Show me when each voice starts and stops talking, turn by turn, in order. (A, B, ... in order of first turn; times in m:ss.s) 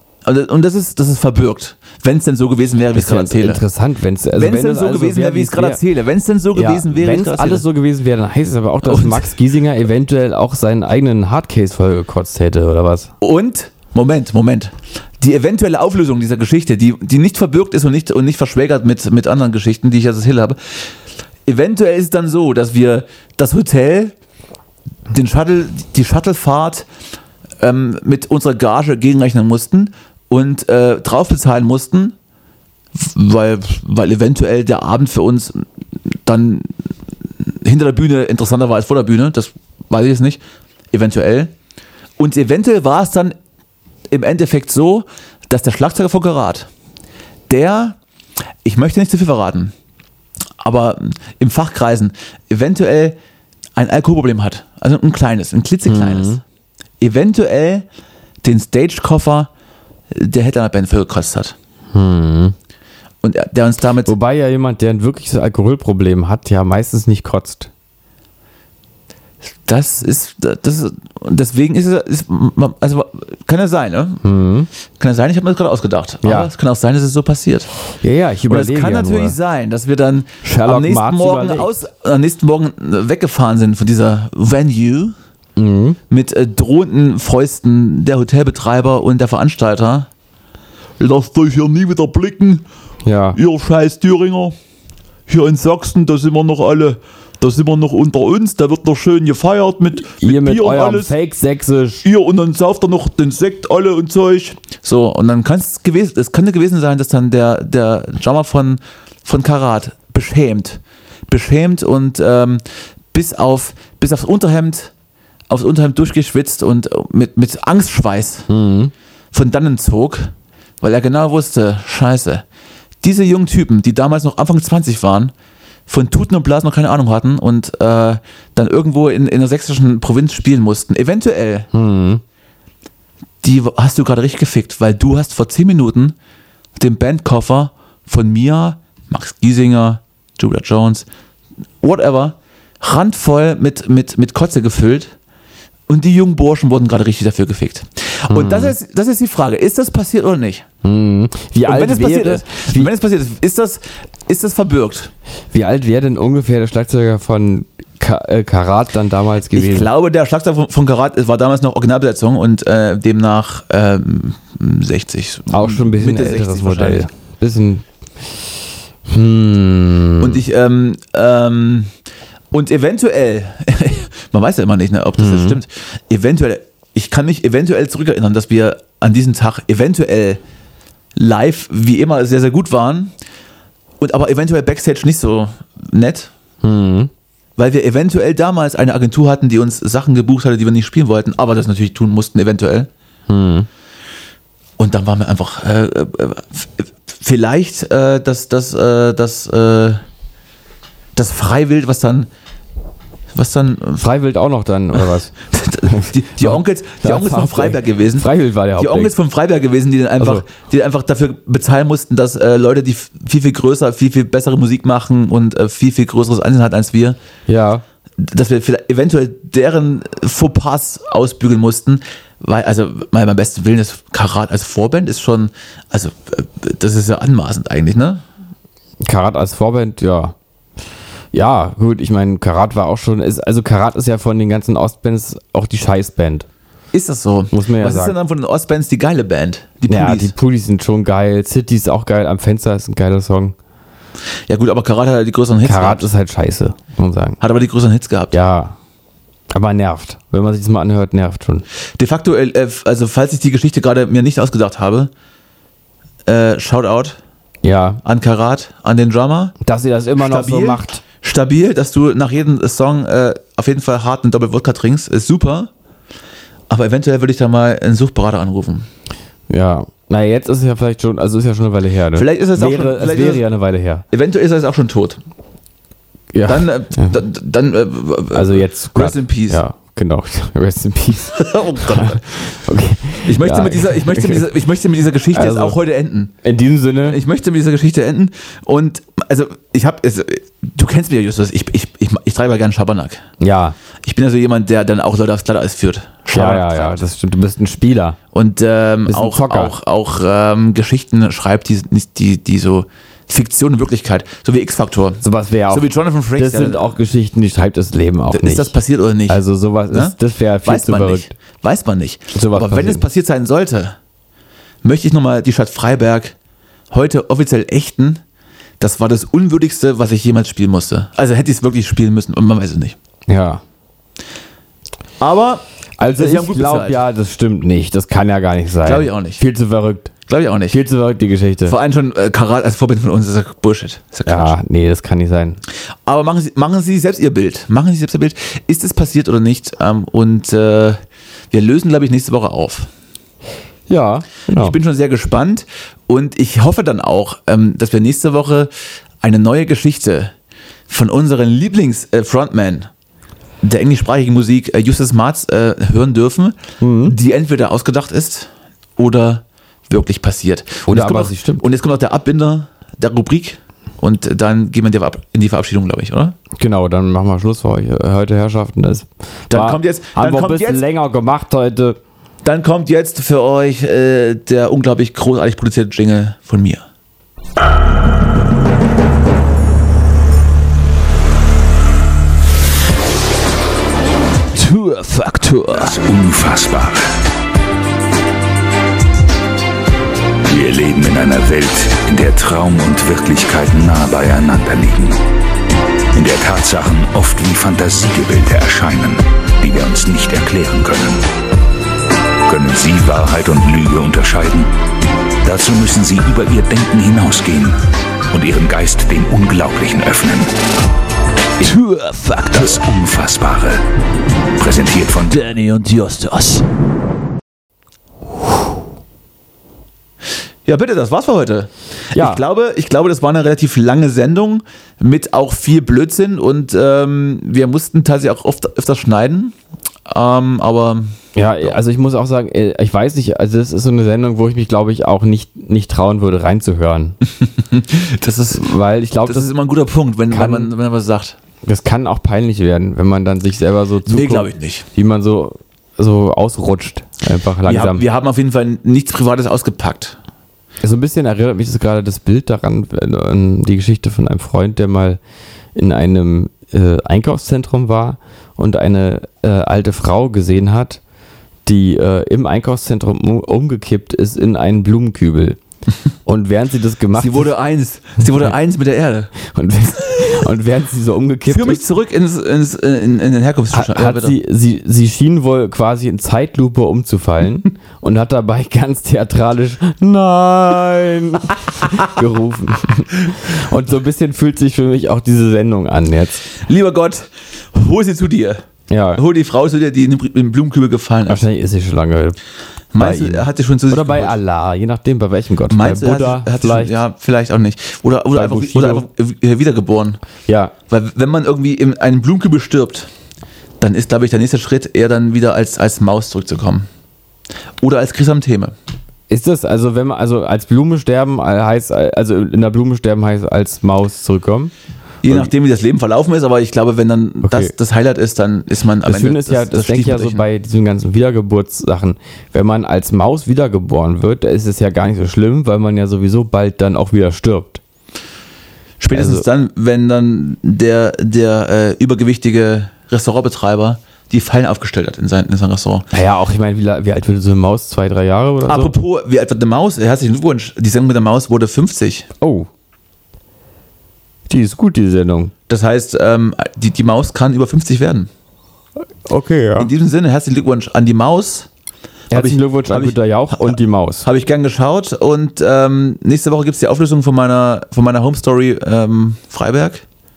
0:00.2-0:03.6 A
0:03.0-0:05.8 B
0:04.4-0:07.7 A
0:06.6-0:13.1 B
0:08.8-0:09.3 A
0:13.2-0:20.6 A
0:21.5-0:24.2 A
0:25.1-0:26.9 A
0:27.6-0:32.2 A
0:32.9-0:36.8 A
0:37.4-0:41.5 A
0:42.2-0:43.4 A
0:44.1-0:46.7 A
0:47.5-0:48.0 A
0:48.6-0:49.7 A
0:50.6-0:53.2 A
0:53.8-0:56.4 A
0:55.9-0:56.4 B
0:57.0-0:57.9 A
0:58.4-0:59.5 A
1:00.1-1:01.6 A
1:01.9-1:02.6 B
1:03.2-1:04.1 A
1:04.1-1:07.7 B
1:09.7-1:14.2 A
1:14.2-1:14.7 B
1:15.0-1:17.7 A
1:16.2-1:16.5 B
1:18.0-1:19.4 B
1:18.5-1:25.2 A
1:20.4-1:21.7 B
1:25.6-1:26.0 B
1:26.1-1:30.1 A
1:31.0-1:32.6 A
1:33.0-1:33.4 B
1:33.3-1:34.6 A
1:35.3-1:41.1 A
1:40.2-1:42.0 B
1:42.0-1:54.9 A
1:55.5-1:58.5 A
1:58.5-1:58.9 B
1:59.3-2:02.4 A
2:03.0-2:05.3 A
2:05.9-2:11.7 A
2:11.7-2:12.2 B
2:13.4-2:16.2 A
2:16.8-2:21.1 A
2:21.8-2:25.2 A
2:25.9-2:30.7 A
2:28.3-2:28.8 B
2:30.8-2:32.9 B
2:31.6-2:35.1 A
2:35.5-2:39.9 B
2:39.5-2:47.1 A
2:45.5-2:47.8 B
2:49.1-2:50.4 B
2:50.2-2:51.9 A
2:52.5-3:00.4 A
2:55.2-2:55.6 B
3:01.2-3:03.2 A
3:04.0-3:06.3 A
3:06.6-3:07.1 B
3:07.6-3:12.9 A
3:13.3-3:13.7 B
3:14.8-3:20.0 A
3:21.2-3:22.3 A
3:23.3-3:24.0 A
3:24.0-3:25.3 B
3:25.0-3:37.2 A
3:25.9-3:29.2 B
3:30.2-3:30.5 B
3:37.5-3:37.8 B
3:38.2-3:48.2 A
3:49.0-3:50.4 B
3:51.3-3:56.5 B
3:56.9-4:00.3 A
3:57.5-3:58.2 B
3:59.9-4:03.6 B
4:04.5-4:06.1 A
4:05.6-4:07.4 B
4:07.4-4:08.4 A
4:08.3-4:08.8 B
4:09.5-4:11.6 B
4:12.0-4:15.1 A
4:16.3-4:17.2 A
4:17.6-4:18.0 B
4:18.0-4:19.6 A
4:19.6-4:21.0 B
4:20.2-4:25.7 A
4:26.7-4:28.9 A
4:29.5-4:34.0 B
4:32.1-4:33.5 A
4:34.1-4:35.2 A
4:36.3-4:37.2 B
4:36.4-4:39.6 A
4:38.3-4:44.5 B
4:41.3-4:42.2 A
4:43.2-4:46.4 A
4:45.3-4:45.8 B
4:46.4-4:47.2 B
4:47.0-4:53.3 A
4:53.4-4:53.8 B
4:54.0-4:57.0 A
4:56.3-4:58.2 B
4:58.3-5:06.9 A
4:59.1-4:59.8 B
5:05.2-5:08.7 B
5:08.3-5:14.0 A
5:09.3-5:11.4 B
5:12.3-5:13.1 B
5:14.8-5:16.4 A
5:16.9-5:18.2 A
5:18.8-5:23.0 A
5:23.3-5:23.6 B
5:25.2-5:27.0 A
5:26.0-5:30.1 B
5:28.8-5:29.4 A
5:30.3-5:30.8 A
5:30.7-5:31.8 B
5:31.7-5:34.6 A
5:34.3-5:35.6 B
5:36.1-5:42.9 A
5:43.9-5:44.8 B
5:44.5-5:50.3 A
5:50.9-5:52.9 A
5:53.6-6:06.4 A
5:56.8-5:57.2 B
6:00.9-6:01.6 B
6:06.6-6:12.0 B
6:09.5-6:10.8 A
6:12.4-6:16.9 A
6:24.6-6:26.0 A
6:25.7-6:27.1 C
6:30.5-6:35.2 C
6:36.1-6:41.2 C
6:42.5-6:44.7 C
6:45.4-6:47.8 C
6:48.3-6:50.5 C
6:51.6-6:52.7 A
6:52.5-6:53.8 C
6:54.6-6:55.5 C
6:55.3-6:56.7 A
7:00.6-7:09.6 A
7:02.2-7:02.4 B
7:10.1-7:11.8 A
7:11.4-7:17.2 B
7:17.4-7:21.4 A
7:18.5-7:19.5 B
7:20.3-7:20.7 B
7:21.6-7:28.0 B
7:24.1-7:24.9 A
7:27.7-7:30.2 A
7:30.8-7:35.2 B
7:35.8-7:41.0 B
7:41.7-7:45.6 B
7:46.2-7:47.5 B
7:47.2-7:49.3 A
7:49.4-7:51.8 B
7:51.5-7:54.4 A
7:53.7-8:06.5 B
8:06.6-8:08.6 A
8:08.9-8:09.2 B
8:09.2-8:11.4 A
8:11.3-8:12.4 B
8:12.9-8:14.4 A
8:13.0-8:16.9 B
8:15.7-8:20.2 A
8:18.3-8:19.0 B
8:20.5-8:20.7 B
8:20.9-8:23.1 A
8:23.8-8:26.9 A
8:27.8-8:28.7 A
8:29.3-8:34.7 B
8:35.2-8:40.5 A
8:37.4-8:37.7 B
8:39.1-8:47.8 B
8:49.0-8:56.1 A
8:49.1-8:49.5 B
8:56.1-8:59.0 B
8:58.7-9:02.3 A
9:02.4-9:02.7 B
9:04.5-9:05.5 B
9:05.7-9:08.3 A
9:09.3-9:09.9 B
9:09.8-9:11.7 A
9:12.3-9:14.3 B
9:12.3-9:20.0 A